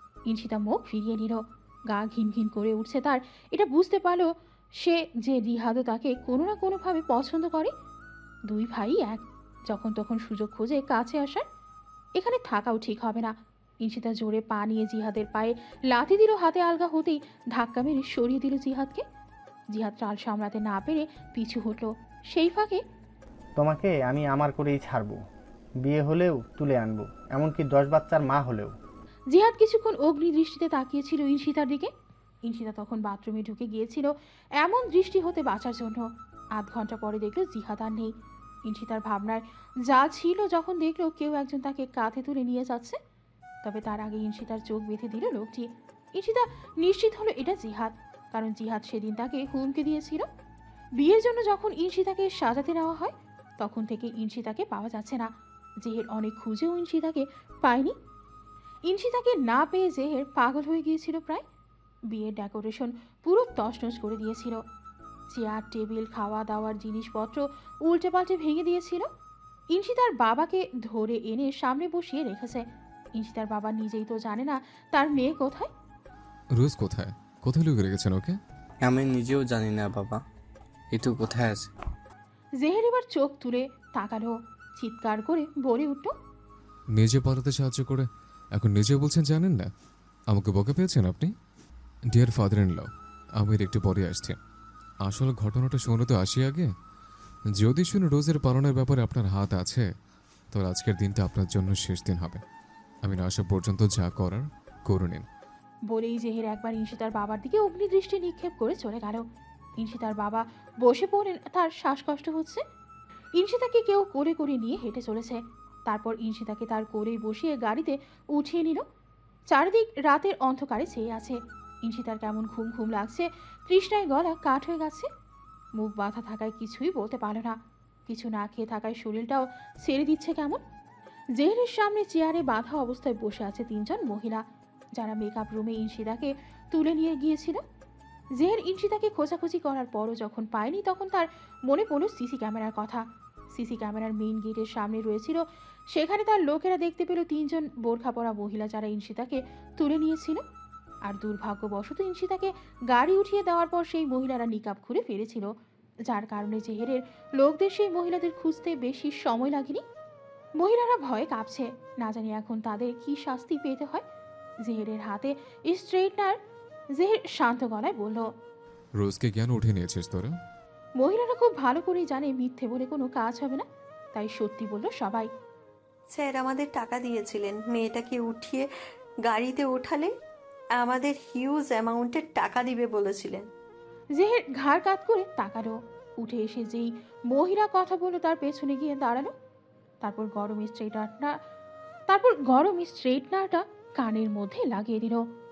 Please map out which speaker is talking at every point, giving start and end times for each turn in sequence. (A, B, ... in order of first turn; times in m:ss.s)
0:00.3-0:04.3 A
0:04.8-0:07.7 A
0:08.5-0:11.4 A
0:12.2-0:19.0 A
0:19.7-0:22.8 A
0:23.6-0:25.2 B
0:25.8-0:28.8 B
0:29.3-0:31.9 A
0:32.5-0:36.0 A
0:36.6-0:38.1 A
0:38.7-0:43.0 A
0:43.6-0:50.3 A
0:51.0-0:55.3 A
0:55.8-0:57.9 A
0:58.9-1:01.4 A
1:02.1-1:04.6 A
1:05.3-1:09.1 A
1:09.7-1:12.6 A
1:13.2-1:15.7 A
1:16.6-1:18.4 C
1:18.8-1:20.2 D
1:20.9-1:21.7 D
1:22.6-1:26.1 A
1:27.0-1:29.7 C
1:30.3-1:31.3 C
1:32.1-1:32.9 C
1:33.4-1:34.4 C
1:35.0-1:36.7 C
1:37.6-1:39.8 C
1:40.5-1:42.4 C
1:43.0-1:45.2 C
1:45.9-1:49.2 A
1:49.8-1:52.6 A
1:53.4-1:58.8 A
1:59.5-2:05.1 A
2:05.8-2:10.6 A
2:11.4-2:14.4 A
2:15.0-2:17.6 A
2:18.4-2:23.0 A
2:23.5-2:30.4 A
2:31.1-2:35.5 A
2:36.1-2:39.8 A
2:40.6-2:44.0 A
2:44.6-2:46.4 A
2:47.0-2:48.3 A
2:49.0-2:50.3 C
2:51.0-2:55.3 A
2:56.1-2:58.7 E
2:59.2-3:00.1 E
3:00.8-3:03.5 E
3:04.2-3:09.3 A
3:10.0-3:11.4 A
3:12.1-3:15.2 A